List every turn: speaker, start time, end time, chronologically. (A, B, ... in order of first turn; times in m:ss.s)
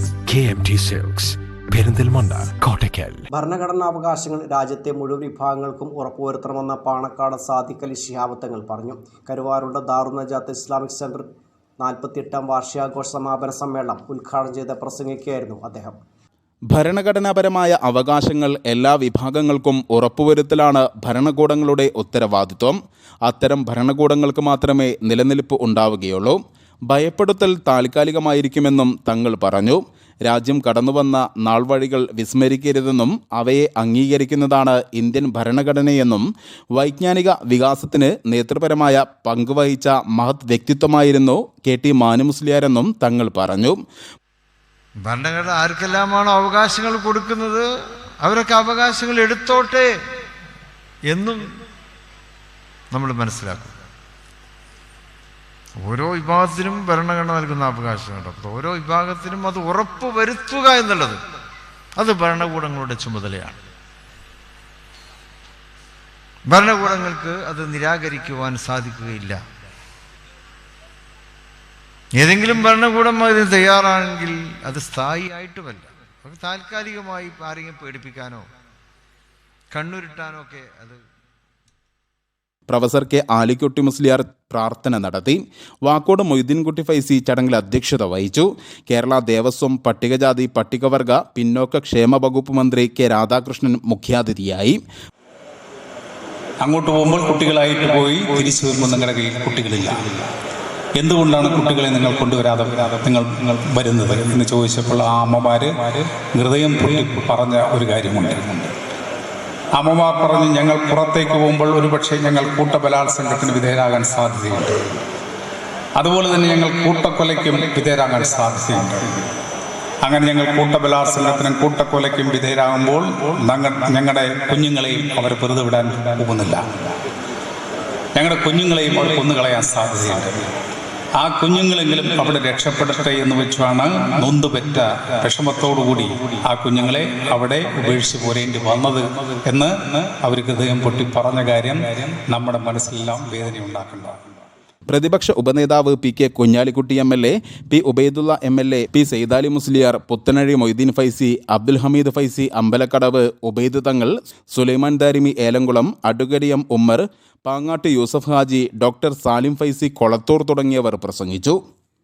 0:00.2-0:03.3 A
0:03.3-0:11.3 B
0:11.8-0:16.0 B
0:16.7-0:43.8 C
0:45.0-0:47.7 D
0:48.2-0:49.9 D
0:51.1-0:51.4 D
0:52.9-0:53.7 D
0:55.8-1:01.2 D
1:02.0-1:03.6 D
1:06.5-1:09.4 D
1:12.2-1:18.4 D
1:19.7-1:21.0 D
1:22.7-1:34.8 C
1:36.6-1:40.2 E
1:41.0-1:48.7 E
1:49.7-1:55.0 E
1:56.0-1:59.2 E
2:00.0-2:06.7 E
2:08.2-2:10.5 E
2:11.2-2:24.2 E
2:24.9-2:41.6 C